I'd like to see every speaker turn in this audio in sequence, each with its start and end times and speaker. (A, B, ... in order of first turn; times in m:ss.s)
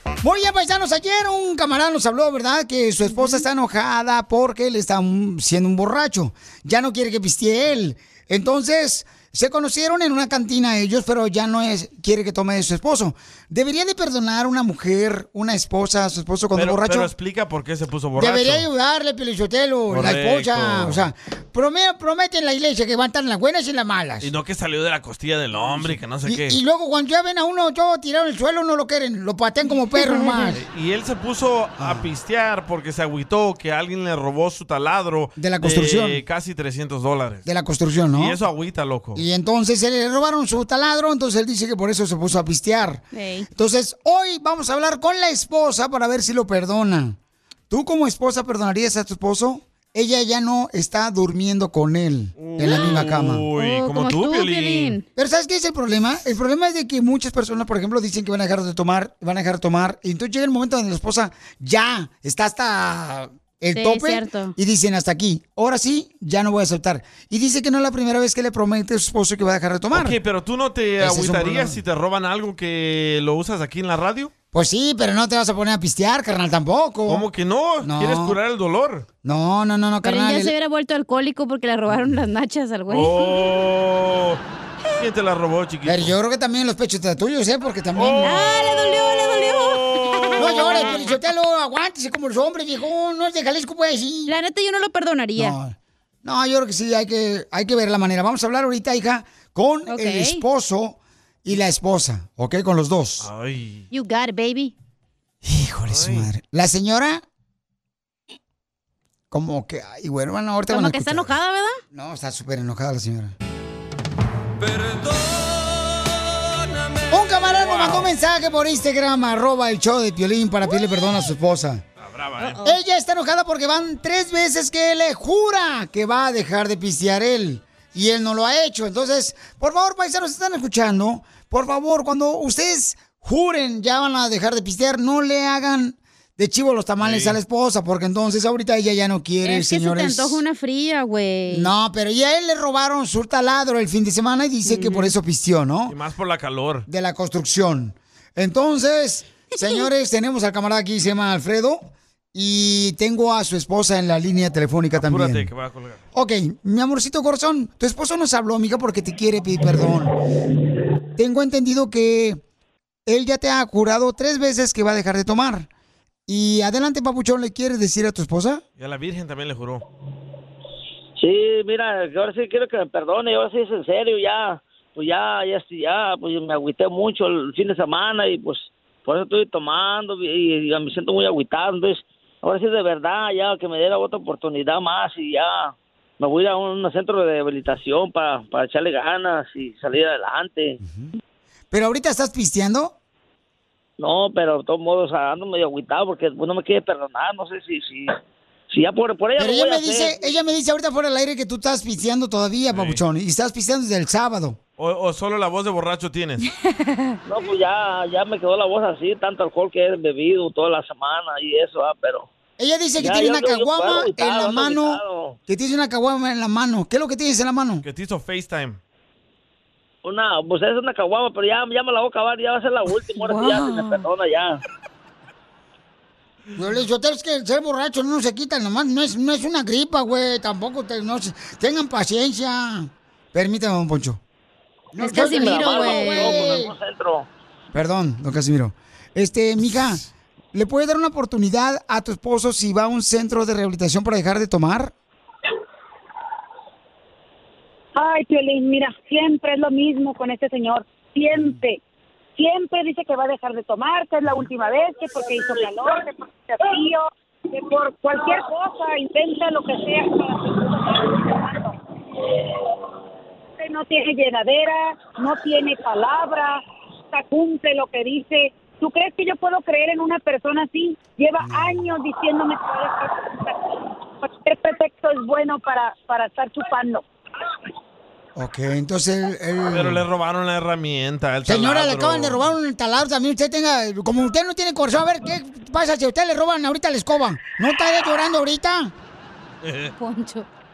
0:00.2-0:17.1 A
0:16.5-0:18.7 B
0:18.2-0:24.3 A
0:19.9-0:21.1 B
0:24.2-0:26.6 B
0:25.6-0:30.6 A
0:30.0-0:30.5 C
0:30.5-0:37.4 B
0:31.8-0:32.1 A
0:35.4-0:36.2 A
0:37.5-0:38.4 A
0:38.1-0:39.2 B
0:39.2-0:47.2 A
0:43.1-0:43.5 C
0:47.7-0:53.5 A
0:52.4-0:55.0 B
0:52.7-0:53.0 C
0:53.6-0:55.0 C
0:55.2-1:10.2 A
1:03.7-1:04.6 C
1:09.9-1:14.3 B
1:11.0-1:11.8 A
1:14.5-1:17.2 A
1:17.1-1:19.1 B
1:17.8-1:18.4 A
1:19.2-1:20.5 A
1:20.0-1:23.4 C
1:22.9-1:24.4 B
1:25.0-1:26.2 B
1:25.8-1:28.5 A
1:28.0-1:28.2 B
1:28.2-1:31.0 C
1:29.6-1:30.9 B
1:30.4-1:34.3 A
1:34.3-1:35.6 C
1:35.4-1:43.3 A
1:39.9-1:40.4 C
1:43.2-1:43.9 B
1:43.9-1:44.7 C
1:45.4-1:47.2 A
1:45.9-1:46.3 B
1:49.3-1:51.3 A
1:50.7-1:51.8 C
1:51.9-1:53.3 A
1:57.1-2:01.8 A
1:57.7-1:58.0 B
2:02.0-2:02.6 B
2:02.6-2:20.4 A
2:17.0-2:17.4 B
2:19.4-2:21.7 C
2:21.5-2:26.0 A
2:24.7-2:25.1 C
2:25.9-2:26.9 B
2:26.9-2:35.5 A
2:35.0-2:36.0 B
2:36.1-2:40.1 A
2:41.2-2:42.4 A
2:43.1-2:45.7 A
2:46.3-2:48.6 A
2:48.8-2:49.8 B
2:51.2-3:10.8 D
3:10.8-3:11.1 A
3:11.7-3:12.9 A
3:14.0-3:18.1 D
3:18.7-3:20.4 D
3:19.4-3:24.6 A
3:22.7-3:23.0 B
3:24.8-3:26.5 B
3:26.6-3:27.2 C
3:27.3-3:32.3 D
3:32.6-3:37.8 A
3:33.0-3:35.4 D
3:37.8-3:38.8 B
3:40.0-3:44.6 D
3:43.2-3:44.0 C
3:46.6-3:54.2 A
3:54.9-3:56.7 A
3:55.0-3:56.5 C
3:55.1-3:57.3 D
3:57.7-4:04.9 A
4:08.0-4:11.8 E
4:12.4-4:21.8 E
4:23.6-4:37.0 E
4:31.4-4:31.9 A
4:38.4-4:40.0 A
4:39.7-4:42.4 B
4:41.5-4:48.9 A
4:49.6-4:49.9 B
4:50.0-4:50.5 C